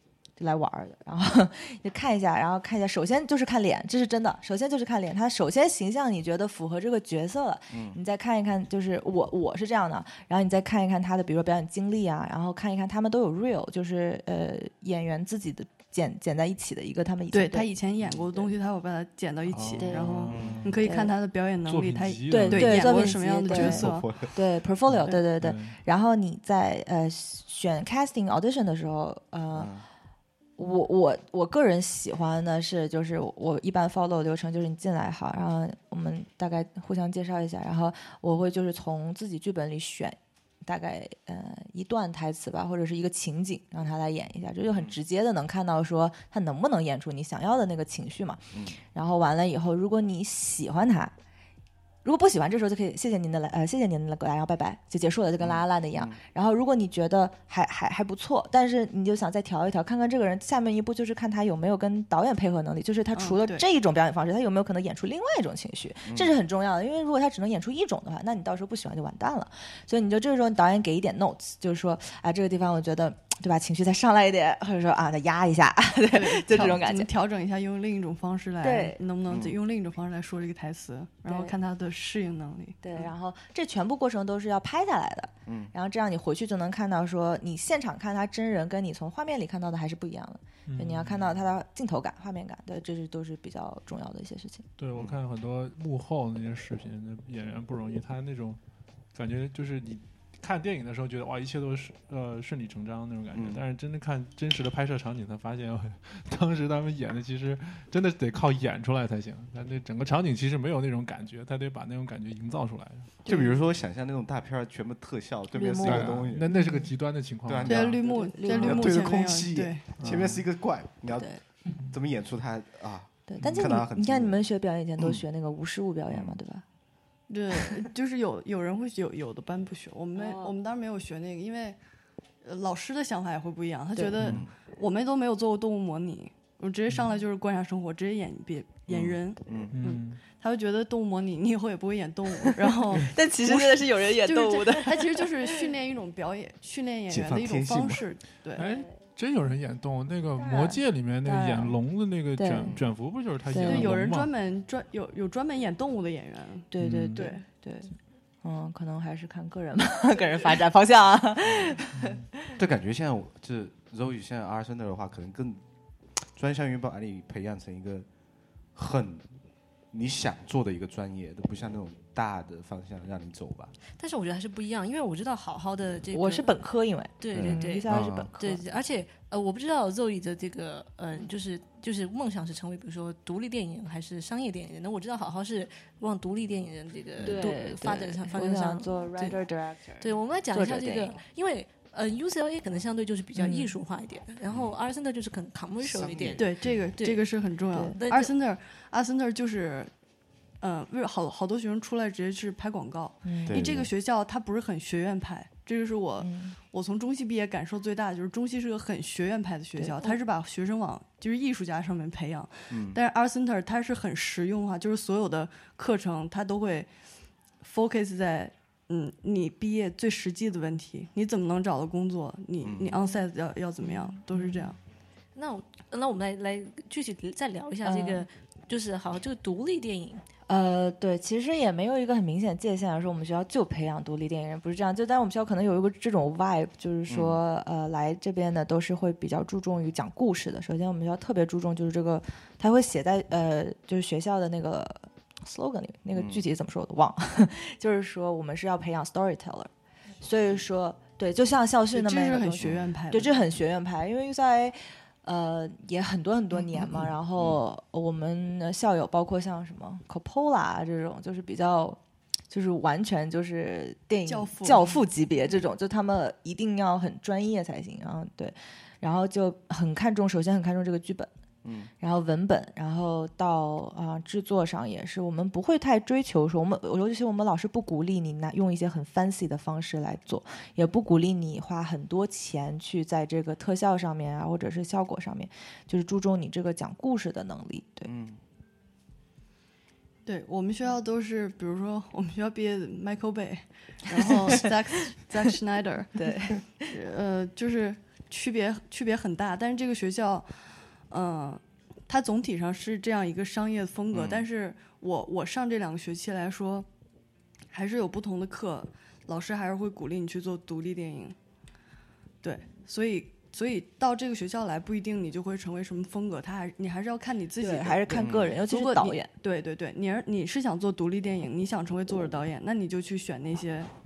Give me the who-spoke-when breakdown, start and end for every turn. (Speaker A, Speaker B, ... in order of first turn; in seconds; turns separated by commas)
Speaker A: 0.4-17.7, Speaker B: 7.7-8.0, Speaker C: 17.3-24.1, Speaker D: 19.5-20.9, Speaker A: 19.8-20.3, Speaker B: 20.3-20.7, Speaker A: 20.8-21.1, Speaker D: 21.6-23.6, Speaker A: 22.3-29.7, Speaker B: 23.5-24.3, Speaker D: 24.9-25.8, Speaker B: 29.5-29.9, Speaker A: 30.6-51.1, Speaker B: 48.5-48.8, Speaker A: 52.0-77.1, Speaker B: 55.4-56.2, Speaker C: 63.1-63.6, Speaker B: 66.1-66.3, Speaker C: 76.1-83.1, Speaker A: 78.6-79.0, Speaker B: 79.3-79.6, Speaker A: 81.3-81.5, Speaker A: 82.8-94.7, Speaker B: 85.5-85.7, Speaker D: 90.7-91.5, Speaker D: 94.8-98.6, Speaker D: 99.1-113.1, Speaker B: 103.3-103.6, Speaker C: 113.2-113.6, Speaker B: 113.3-116.5, Speaker A: 115.5-116.9, Speaker D: 115.8-118.1, Speaker B: 117.5-121.3, Speaker C: 117.7-119.9, Speaker A: 118.2-119.0, Speaker D: 120.0-120.5, Speaker A: 121.1-121.4, Speaker B: 121.8-124.4, Speaker A: 123.3-126.6, Speaker D: 123.4-123.7, Speaker B: 126.1-126.4, Speaker C: 127.3-131.8, Speaker A: 130.2-130.5, Speaker C: 132.4-148.6, Speaker D: 134.2-134.4, Speaker B: 134.2-134.5, Speaker B: 138.9-139.7, Speaker D: 139.7-140.2, Speaker A: 142.5-145.6, Speaker B: 147.1-148.0, Speaker D: 148.6-154.3, Speaker A: 148.6-148.8, Speaker A: 150.4-151.8, Speaker A: 152.4-152.7, Speaker B: 152.7-152.9, Speaker A: 153.5-153.9, Speaker C: 153.6-157.4, Speaker A: 156.7-157.9, Speaker D: 156.8-157.3, Speaker A: 158.4-162.4, Speaker B: 161.5-161.8, Speaker D: 161.9-162.2, Speaker B: 162.6-165.6, Speaker B: 166.2-168.1, Speaker B: 168.8-169.3, Speaker B: 169.9-173.8, Speaker E: 174.0-176.5, Speaker A: 176.1-178.6, Speaker E: 177.2-189.4, Speaker B: 177.3-178.3, Speaker A: 187.2-191.2, Speaker E: 190.0-197.2, Speaker A: 193.4-193.7, Speaker B: 195.8-196.8, Speaker C: 196.4-199.9, Speaker E: 198.0-198.3, Speaker C: 200.6-216.9, Speaker A: 203.2-203.6, Speaker B: 203.5-203.9, Speaker A: 206.2-206.6, Speaker A: 209.8-210.2, Speaker B: 212.7-213.0, Speaker C: 217.6-224.8, Speaker B: 222.6-223.0, Speaker A: 223.8-224.7, Speaker E: 225.3-230.2, Speaker A: 227.8-228.3, Speaker A: 230.5-249.7, Speaker B: 237.1-237.4, Speaker B: 246.1-246.4, Speaker A: 250.2-262.0, Speaker C: 251.9-253.3, Speaker B: 252.6-252.9, Speaker A: 262.5-271.3, Speaker C: 264.3-265.0, Speaker B: 271.6-271.9, Speaker A: 272.0-288.1, Speaker B: 288.1-288.4, Speaker C: 290.3-306.9, Speaker A: 296.2-296.9, Speaker B: 304.1-304.5, Speaker C: 307.7-311.4, Speaker C: 312.4-323.9, Speaker A: 317.6-319.3, Speaker B: 318.2-318.6